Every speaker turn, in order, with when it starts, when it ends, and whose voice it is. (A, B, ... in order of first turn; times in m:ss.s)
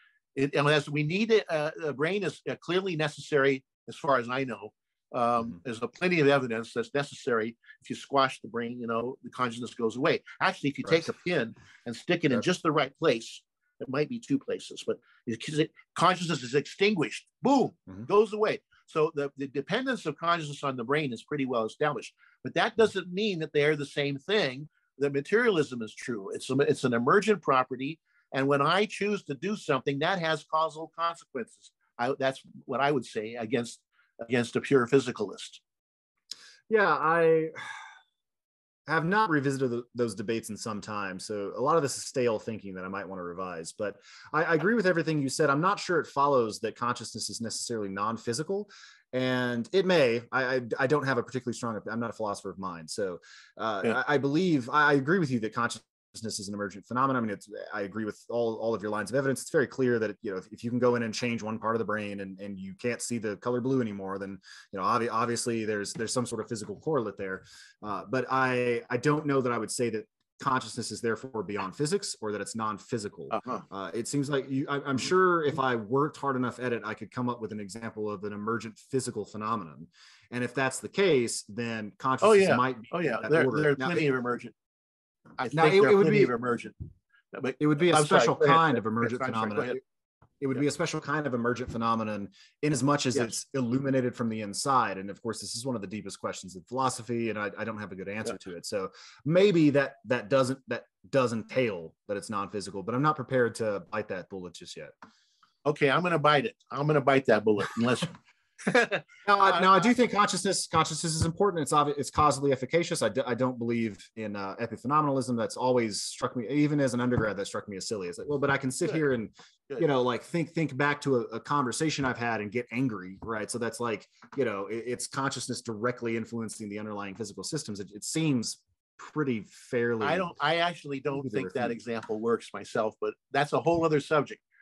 0:00.3-0:35.6 A
0:36.7-0:37.5 B
0:38.9-1:24.1 B
1:13.3-1:13.6 A
1:22.2-1:24.5 A
1:25.4-1:26.7 A
1:25.5-1:26.3 B
1:27.3-1:29.8 A
1:27.6-1:29.8 B
1:30.4-1:44.9 B
1:45.6-1:49.9 A
1:49.2-2:10.3 B
2:10.0-2:14.4 A
2:11.1-2:11.8 B